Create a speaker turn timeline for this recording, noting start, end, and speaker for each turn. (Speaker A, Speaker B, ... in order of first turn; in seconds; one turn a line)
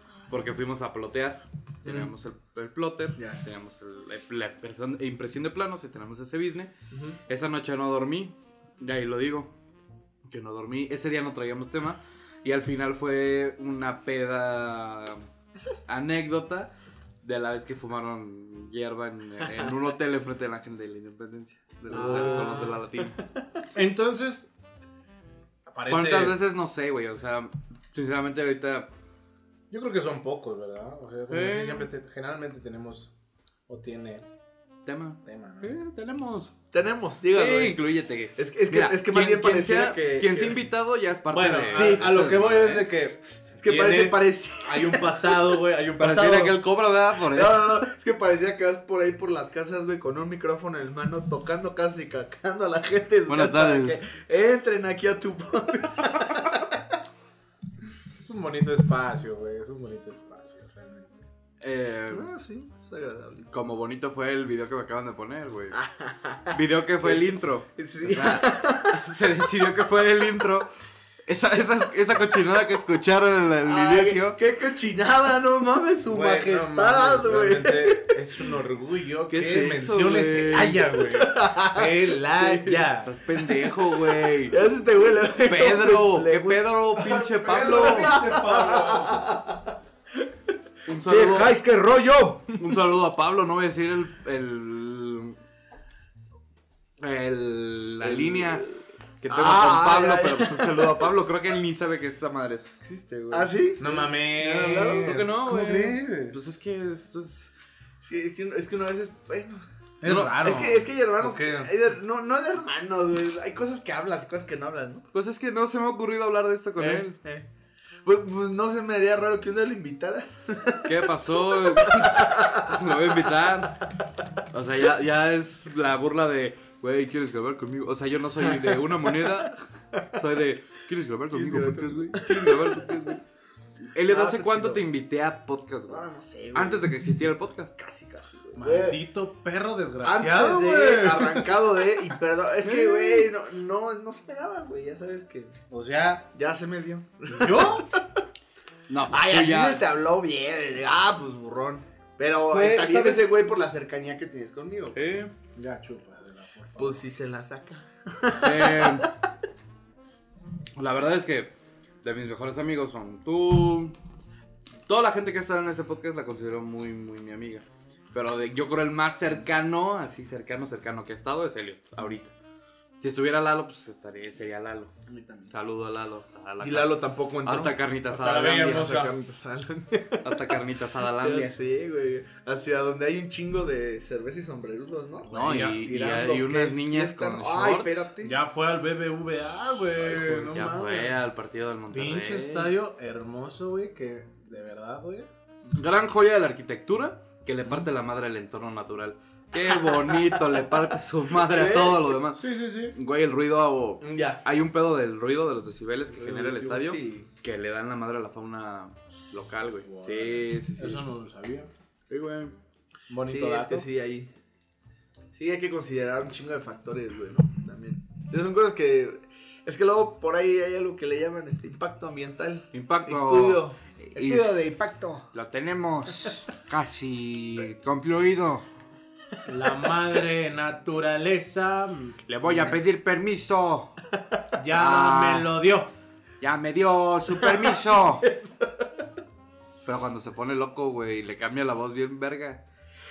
Speaker A: 0.3-6.7
Speaker B: 1.8-2.1
Speaker B: 3.1-3.4
Speaker B: 6.9-7.2
Speaker A: 7.3-9.5
Speaker A: 10.2-15.2
Speaker A: 15.9-16.7
Speaker A: 17.2-23.2
Speaker C: 21.9-22.7
Speaker B: 21.9-22.8
Speaker C: 23.7-24.5
Speaker C: 25.6-26.4
Speaker A: 25.9-28.9
Speaker C: 29.7-33.1
Speaker A: 31.3-31.9
Speaker C: 33.7-34.2
Speaker A: 34.9-36.5
Speaker C: 35.2-35.8
Speaker B: 36.7-37.8
Speaker A: 37.3-42.9
Speaker B: 38.4-40.6
Speaker C: 41.3-46.6
Speaker B: 41.7-42.3
Speaker B: 43.6-45.6
Speaker A: 46.0-47.7
Speaker B: 47.3-56.7
Speaker A: 53.3-54.0
Speaker C: 58.2-61.2
Speaker A: 61.6-62.3
Speaker B: 62.1-63.5
Speaker A: 63.5-65.8
Speaker B: 65.7-67.2
Speaker A: 66.5-70.7
Speaker B: 67.8-69.0
Speaker A: 71.2-74.4
Speaker B: 73.6-78.3
Speaker C: 76.1-83.1
Speaker A: 79.3-80.8
Speaker B: 79.8-89.7
Speaker A: 83.0-84.6
Speaker A: 85.4-88.2
Speaker C: 87.4-89.2
Speaker A: 90.8-91.5
Speaker B: 90.9-92.7
Speaker A: 92.6-95.3
Speaker A: 97.0-98.7
Speaker B: 98.0-98.8
Speaker A: 99.2-103.5
Speaker B: 99.3-101.1
Speaker B: 103.3-105.3
Speaker C: 103.8-106.4
Speaker A: 105.0-107.5
Speaker B: 108.0-109.6
Speaker C: 110.0-111.7
Speaker A: 110.0-110.4
Speaker B: 110.4-115.0
Speaker A: 115.1-117.2
Speaker B: 116.8-117.5
Speaker B: 118.0-123.1
Speaker A: 120.8-123.8
Speaker A: 124.5-133.2
Speaker B: 128.4-129.3
Speaker B: 131.3-132.8
Speaker A: 133.9-136.0
Speaker B: 134.1-134.8
Speaker B: 135.9-137.0
Speaker A: 136.5-137.7
Speaker B: 137.8-139.0
Speaker C: 138.5-141.5
Speaker B: 140.0-145.6
Speaker A: 142.6-143.3
Speaker C: 145.7-146.3
Speaker B: 146.3-148.2
Speaker C: 147.4-147.8
Speaker A: 148.9-149.8
Speaker B: 149.1-155.1
Speaker A: 152.4-153.3
Speaker A: 154.9-155.3
Speaker C: 155.6-157.0
Speaker B: 156.8-159.1
Speaker A: 158.4-159.1
Speaker A: 160.8-161.5
Speaker A: 162.0-163.9
Speaker A: 164.9-172.3
Speaker A: 173.0-174.9
Speaker B: 175.1-175.5
Speaker A: 175.5-179.1
Speaker B: 176.6-177.7
Speaker C: 178.1-179.1
Speaker B: 178.7-180.3
Speaker A: 180.2-181.6
Speaker B: 181.2-188.4
Speaker C: 185.3-185.8
Speaker A: 185.3-188.1
Speaker C: 188.2-191.2
Speaker A: 190.0-192.7
Speaker C: 191.9-195.3
Speaker A: 195.7-211.0
Speaker B: 201.5-202.2
Speaker C: 202.4-202.9
Speaker B: 204.0-204.4
Speaker B: 206.1-207.3
Speaker C: 209.8-211.7
Speaker A: 212.1-212.5
Speaker C: 213.1-213.9
Speaker B: 213.2-214.3
Speaker B: 215.3-225.3
Speaker A: 222.7-224.5
Speaker A: 225.3-228.6
Speaker C: 229.5-232.7
Speaker A: 232.3-233.9
Speaker C: 234.6-235.9
Speaker A: 234.7-235.5
Speaker A: 236.4-238.2
Speaker B: 237.4-238.8
Speaker A: 239.8-242.6